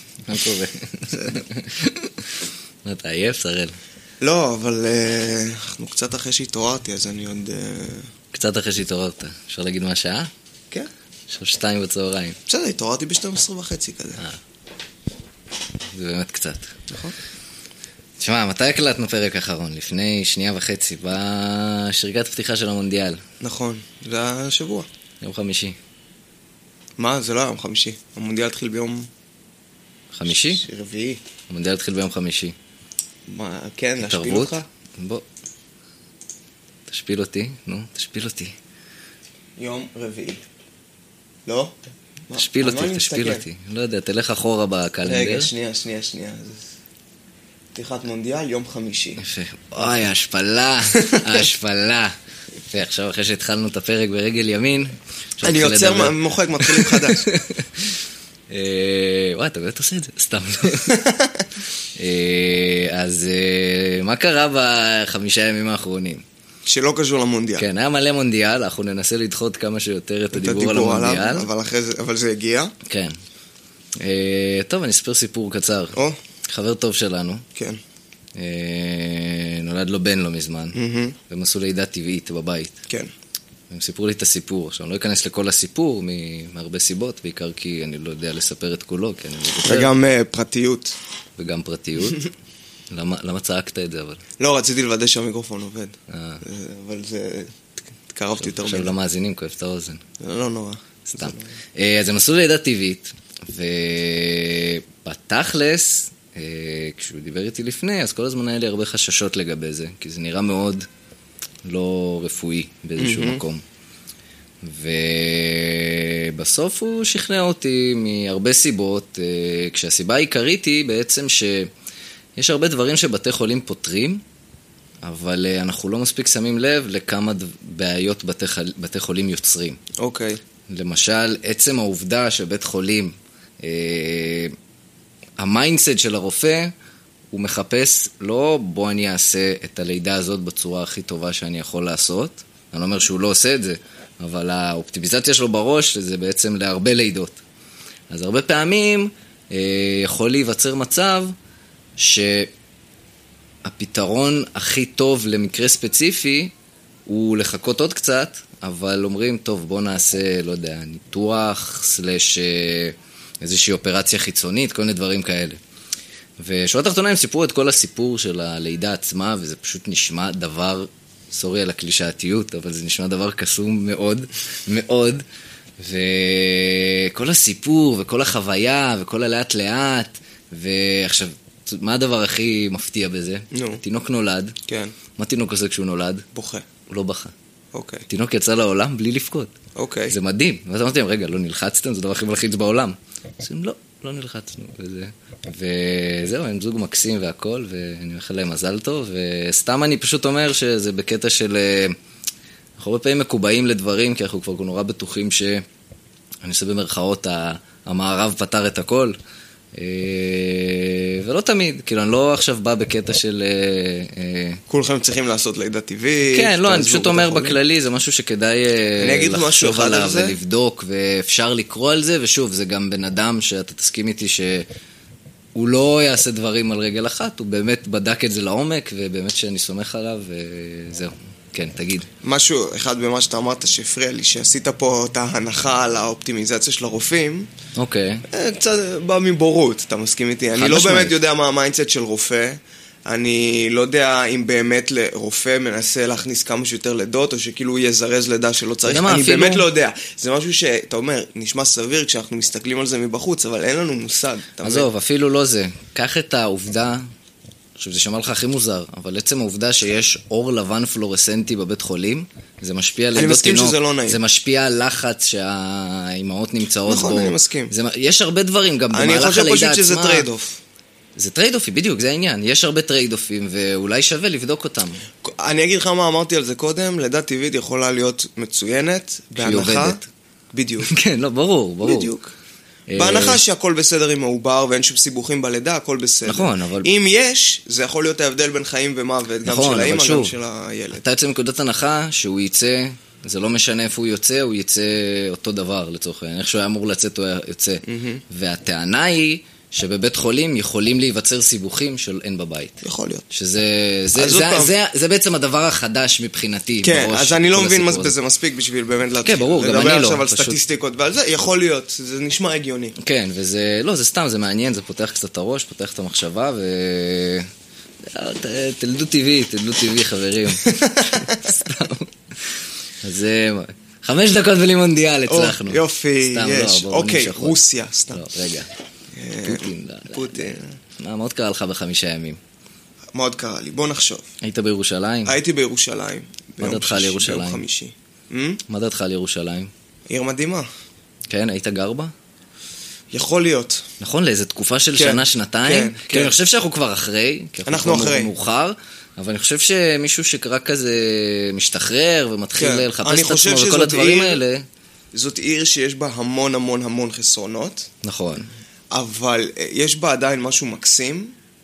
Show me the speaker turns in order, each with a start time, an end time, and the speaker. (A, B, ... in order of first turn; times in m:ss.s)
0:00.2-0:03.8 A
0:01.1-0:01.4 B
0:04.2-0:08.1 B
0:08.3-0:10.3 A
0:11.3-0:12.4 A
0:12.5-0:14.2 B
0:15.9-0:16.7 A
0:16.9-0:17.1 B
0:18.2-0:23.2 A
0:23.4-0:24.9 B
0:25.2-0:25.8 A
0:27.0-0:29.1 B
0:30.1-0:30.6 A
0:30.2-0:31.2 B
0:31.5-0:32.5 A
0:33.3-0:34.6 B
0:34.0-0:35.2 A
0:36.9-0:38.5 A
0:39.6-0:40.4 B
0:41.4-0:41.7 B
0:42.3-0:43.4 B
0:42.4-0:45.5 A
0:45.0-0:46.7 B
0:47.7-0:49.2 B
0:49.2-0:52.1 A
0:52.7-0:58.0 A
0:55.4-0:57.3 B
0:58.5-1:01.0 A
1:00.8-1:01.4 B
1:02.0-1:06.2 A
1:06.6-1:07.7 B
1:07.6-1:11.5 A
1:10.3-1:12.7 B
1:12.8-1:13.2 A
1:14.0-1:17.4 A
1:18.4-1:22.8 A
1:20.7-1:21.2 B
1:23.7-1:29.9 A
1:29.6-1:31.0 B
1:31.4-1:32.2 A
1:32.9-1:34.2 A
1:34.4-1:37.5 B
1:36.1-1:36.4 A
1:38.1-1:38.9 B
1:38.4-1:40.0 A
1:40.2-1:41.5 B
1:41.1-1:50.9 A
1:51.6-1:53.6 A
1:53.0-1:53.4 B
1:54.6-2:01.7 A
2:02.4-2:04.2 A
2:05.0-2:09.8 A
2:10.0-2:10.4 B
2:10.7-2:14.5 A
2:15.4-2:16.7 A
2:17.3-2:27.4 A
2:28.1-2:31.3 A
2:32.0-2:32.5 A
2:33.6-2:36.5 A
2:37.0-2:45.6 A
2:46.4-2:55.2 A
2:55.8-3:04.5 A
3:03.5-3:03.8 B
3:04.7-3:04.9 B
3:05.2-3:06.2 A
3:06.3-3:06.6 B
3:06.9-3:07.3 A
3:07.7-3:08.0 B
3:08.1-3:09.5 A
3:09.8-3:10.1 B
3:10.1-3:22.0 A
3:22.8-3:25.6 A
3:26.4-3:29.2 A
3:29.7-3:34.6 A
3:34.7-3:37.6 B
3:36.3-3:44.7 A
3:39.0-3:40.4 B
3:45.5-3:52.1 A
3:52.2-3:57.5 B
3:57.8-3:58.2 A
3:58.3-4:14.9 B
4:00.5-4:01.2 A
4:08.8-4:09.6 A
4:14.6-4:17.0 A
4:17.8-4:30.2 A
4:23.1-4:24.2 B
4:26.9-4:27.7 B
4:28.9-4:30.6 B
4:31.2-4:35.0 A
4:35.2-4:40.0 B
4:39.4-4:40.0 A
4:40.5-4:40.9 B
4:40.8-4:42.1 A
4:41.8-4:42.3 B
4:42.9-4:43.4 A
4:43.0-4:51.0 B
4:46.3-4:46.9 A
4:49.4-4:50.3 A
4:50.9-5:08.1 A
4:57.9-4:58.2 B
5:02.8-5:03.2 B
5:04.2-5:04.7 B
5:06.8-5:13.0 B
5:09.2-5:10.6 A
5:13.0-5:17.5 A
5:18.1-5:22.1 A
5:20.6-5:21.5 B
5:23.0-5:27.6 A
5:25.3-5:28.2 B
5:28.1-5:28.7 A
5:29.1-5:30.8 B
5:29.4-5:32.4 A
5:33.1-5:34.3 B
5:34.4-5:35.4 A
5:35.2-5:38.6 B
5:36.6-5:37.6 A
5:38.7-5:39.7 A
5:40.1-5:40.7 B
5:41.3-5:42.1 A
5:43.1-5:43.8 B
5:44.0-5:54.6 A
5:45.0-5:46.4 B
5:47.6-5:48.3 B
5:52.6-5:54.4 B
5:55.1-5:57.9 B
5:58.0-5:58.5 A
5:58.9-6:01.3 B